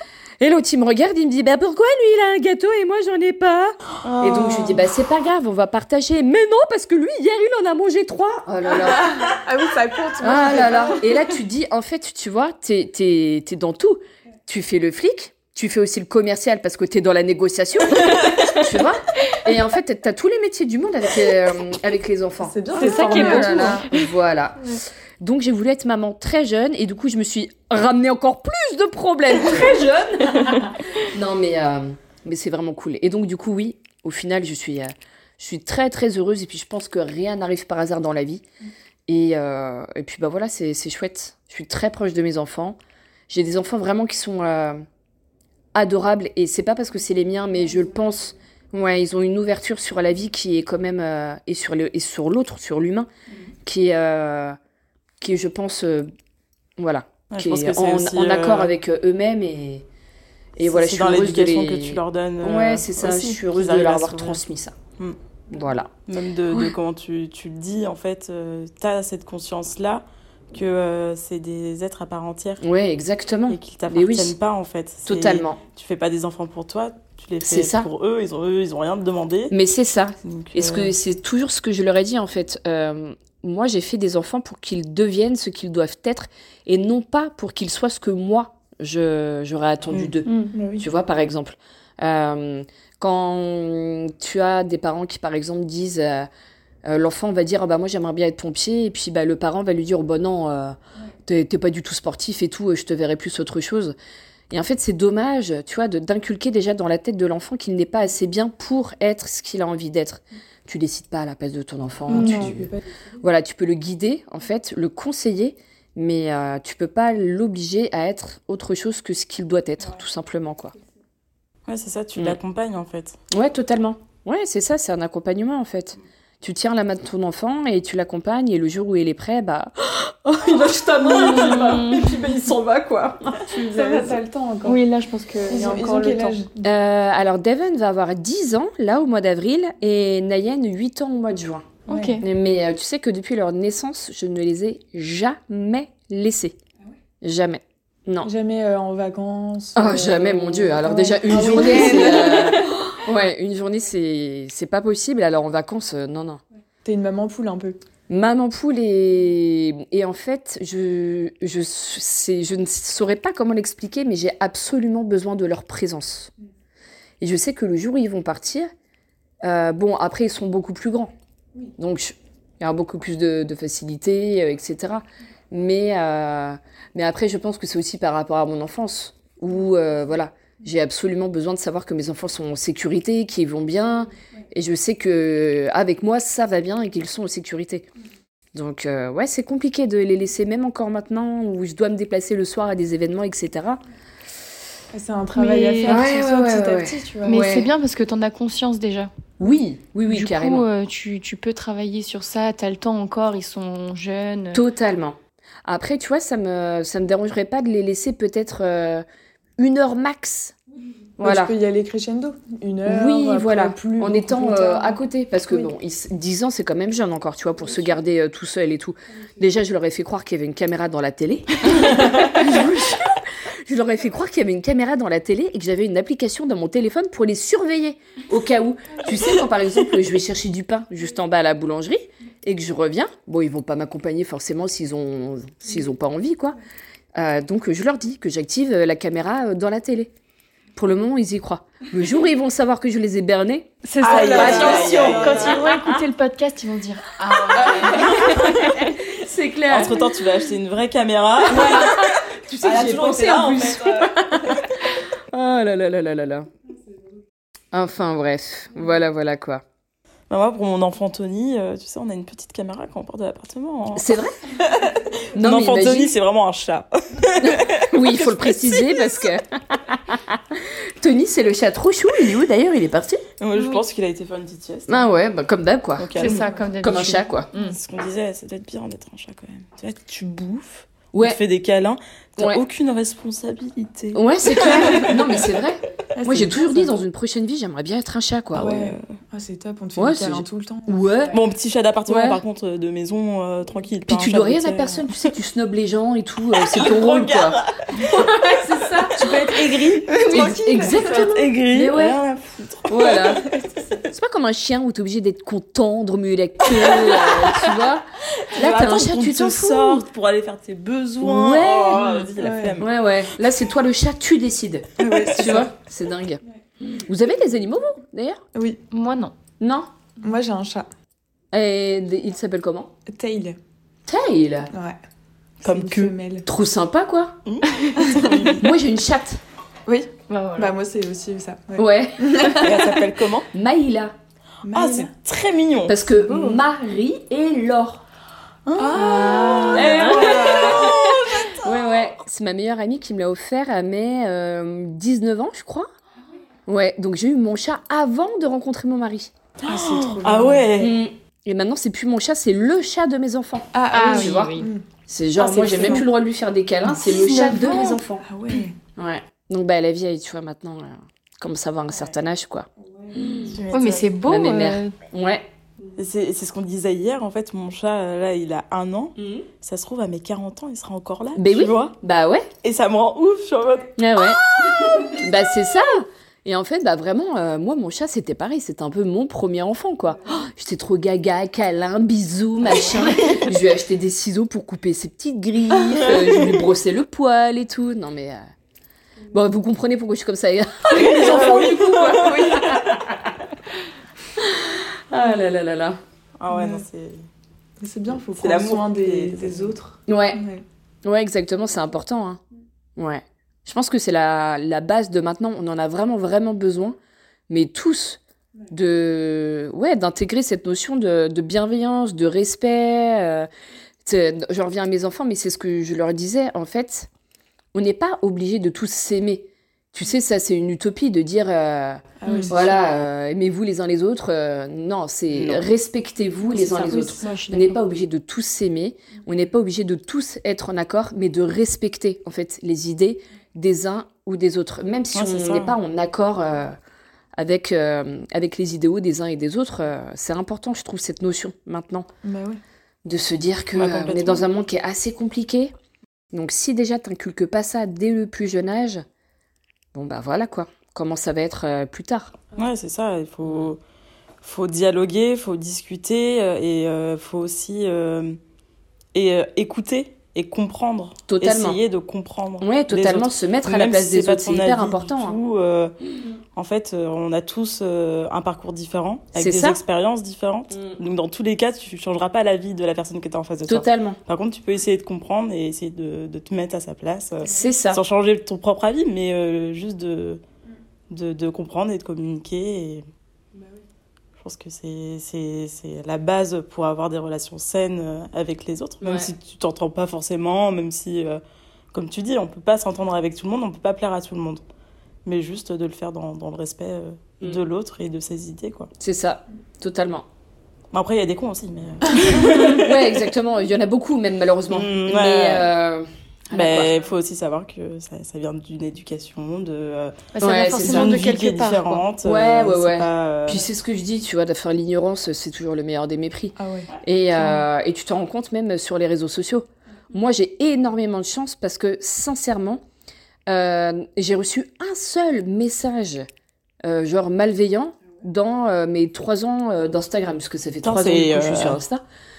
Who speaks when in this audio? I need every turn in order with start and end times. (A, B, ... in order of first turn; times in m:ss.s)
0:00.4-0:09.3 A
0:04.0-0:04.9 B
0:09.0-0:11.1 C
0:10.2-0:38.4 A
0:22.4-0:23.8 C
0:22.7-0:24.1 D
0:39.1-0:42.8 A
0:43.3-0:44.8 A
0:45.7-0:53.1 A
0:53.6-0:54.6 A
0:55.2-0:56.1 A
0:56.8-0:59.8 A
0:57.3-0:58.7 B
1:00.6-1:04.7 A
1:00.6-1:04.4 B
1:05.5-1:05.9 A
1:06.1-1:12.6 B
1:12.6-1:14.3 A
1:13.5-1:19.5 B
1:15.0-1:15.6 A
1:17.4-1:17.9 A
1:19.5-1:36.3 A
1:20.2-1:20.9 B
1:30.2-1:30.5 D
1:30.5-1:30.8 C
1:36.8-1:43.9 A
1:44.5-2:00.7 A
1:52.1-1:52.5 D
1:52.1-1:52.8 C
2:01.7-2:03.2 B
2:03.3-2:14.2 A
2:11.0-2:12.3 B
2:11.4-2:11.8 D
2:13.5-2:14.8 C
2:14.6-2:16.4 D
2:15.5-2:16.6 C
2:16.6-2:21.7 A
2:21.9-2:22.2 D
2:21.9-2:22.2 C
2:22.2-2:26.6 A
2:27.2-2:28.3 A
2:28.2-2:32.8 C
2:29.7-2:36.4 A
2:36.8-2:37.8 C
2:38.1-2:46.3 A
2:47.2-2:48.7 A
2:49.4-2:51.1 A
2:51.8-3:07.9 A
3:08.5-3:13.8 A
3:14.9-3:17.5 C
3:15.3-3:16.0 D
3:15.8-3:17.7 A
3:17.2-3:19.1 D
3:19.4-3:20.6 A
3:20.1-3:24.6 D
3:24.5-3:29.0 A
3:29.6-3:30.5 A
3:31.2-3:31.5 A
3:31.2-3:35.7 C
3:32.8-3:56.6 A
3:57.1-4:00.1 A
4:00.8-4:06.0 A
4:03.8-4:08.8 D
4:04.0-4:05.6 B
4:04.1-4:05.1 C
4:07.4-4:10.1 A
4:08.0-4:08.5 B
4:09.7-4:14.6 B
4:11.4-4:16.5 A
4:17.7-4:19.6 A
4:20.3-4:29.0 B
4:23.9-4:24.3 A
4:25.3-4:26.1 A
4:27.4-4:33.2 A
4:33.4-4:35.0 B
4:33.5-4:33.8 D
4:34.9-4:37.5 A
4:36.0-4:36.4 B
4:36.2-4:37.8 D
4:37.5-4:45.4 B
4:41.1-4:41.4 A
4:44.1-4:48.8 A
4:46.1-4:46.9 C
4:48.5-4:50.9 C
4:48.6-4:49.1 B
4:50.0-4:51.4 A
4:51.3-4:55.3 B
4:52.1-4:52.4 A
4:54.1-4:59.5 A
4:56.7-4:58.3 B
4:59.0-5:03.4 B
4:59.4-5:01.2 C
5:00.2-5:02.1 A
5:02.9-5:03.5 A
5:04.0-5:10.0 A
5:06.7-5:07.8 B
5:08.4-5:13.2 B
5:11.2-5:12.2 A
5:12.4-5:12.8 C
5:12.8-5:16.4 A
5:15.0-5:15.7 C
5:17.0-5:18.4 A
5:18.5-5:18.8 C
5:18.9-5:19.3 D
5:19.6-5:19.9 A
5:20.2-5:20.9 C
5:21.5-5:22.9 A
5:23.0-5:23.6 C
5:24.1-5:24.7 A
5:24.7-5:25.0 C
5:25.6-5:26.1 B
5:25.6-5:26.5 C
5:26.4-5:27.4 A
5:27.4-5:28.6 B
5:28.5-5:29.4 A
5:29.9-5:32.7 C
5:30.3-5:30.8 D
5:31.8-5:33.0 A
5:32.5-5:33.5 B
5:33.5-5:34.1 A
5:34.6-5:35.1 C
5:34.7-5:36.0 B
5:35.9-5:38.0 A
5:36.3-5:36.6 C
5:38.6-5:41.8 B
5:38.8-5:41.0 C
5:38.9-5:40.4 D
5:39.7-5:45.9 A
5:46.7-5:49.3 A
5:49.6-5:51.0 B
5:49.6-5:50.7 C
5:50.8-5:58.2 A
5:53.7-5:54.8 C
5:53.9-5:54.7 D
5:55.4-5:56.1 C
5:57.0-5:58.0 D
5:58.2-5:58.8 C
5:59.0-6:03.6 A
6:03.5-6:04.0 B
6:03.7-6:04.9 D
6:04.2-6:05.4 A
6:06.0-6:11.9 B
6:09.2-6:09.5 A
6:11.3-6:12.5 A
6:12.6-6:15.2 B
6:14.0-6:28.4 A
6:23.2-6:23.4 B
6:25.9-6:26.6 B
6:29.3-6:33.2 A
6:30.9-6:32.9 B
6:32.1-6:32.8 C
6:34.4-6:36.0 A
6:36.4-6:37.2 B
6:36.5-6:36.8 C
6:37.8-6:40.6 C
6:38.1-6:39.7 B
6:40.1-6:40.4 A
6:41.0-6:42.4 A
6:43.0-6:47.0 A
6:47.5-6:53.5 A
6:54.0-6:57.1 A
6:57.7-7:16.8 A
7:02.2-7:02.8 C
7:05.3-7:05.6 B
7:06.5-7:07.3 C
7:06.8-7:07.8 D
7:15.1-7:15.8 B
7:17.4-7:22.1 A
7:22.2-7:22.6 C
7:23.0-7:25.7 A
7:23.7-7:24.4 B
7:26.3-7:29.0 A
7:29.9-7:32.4 A
7:32.6-7:33.8 B
7:34.4-7:38.4 B
7:39.1-7:46.0 B
7:41.3-7:41.8 A
7:42.6-7:45.4 A
7:46.5-8:00.4 B
7:49.3-7:49.8 A
7:50.7-7:51.0 A
7:53.7-7:54.2 A
7:57.4-7:58.0 A
8:01.1-8:03.0 B
8:04.4-8:11.4 B
8:09.0-8:09.3 A
8:11.9-8:14.6 B
8:15.2-8:18.9 B
8:19.0-8:20.2 A
8:20.9-8:23.2 B
8:22.6-8:26.9 A
8:24.7-8:25.7 B
8:26.5-8:33.6 B
8:30.3-8:32.0 D
8:30.4-8:31.1 A
8:32.2-8:42.8 A
8:36.6-8:37.6 C
8:43.5-8:46.3 A
8:46.8-8:52.0 A
8:50.8-8:51.8 B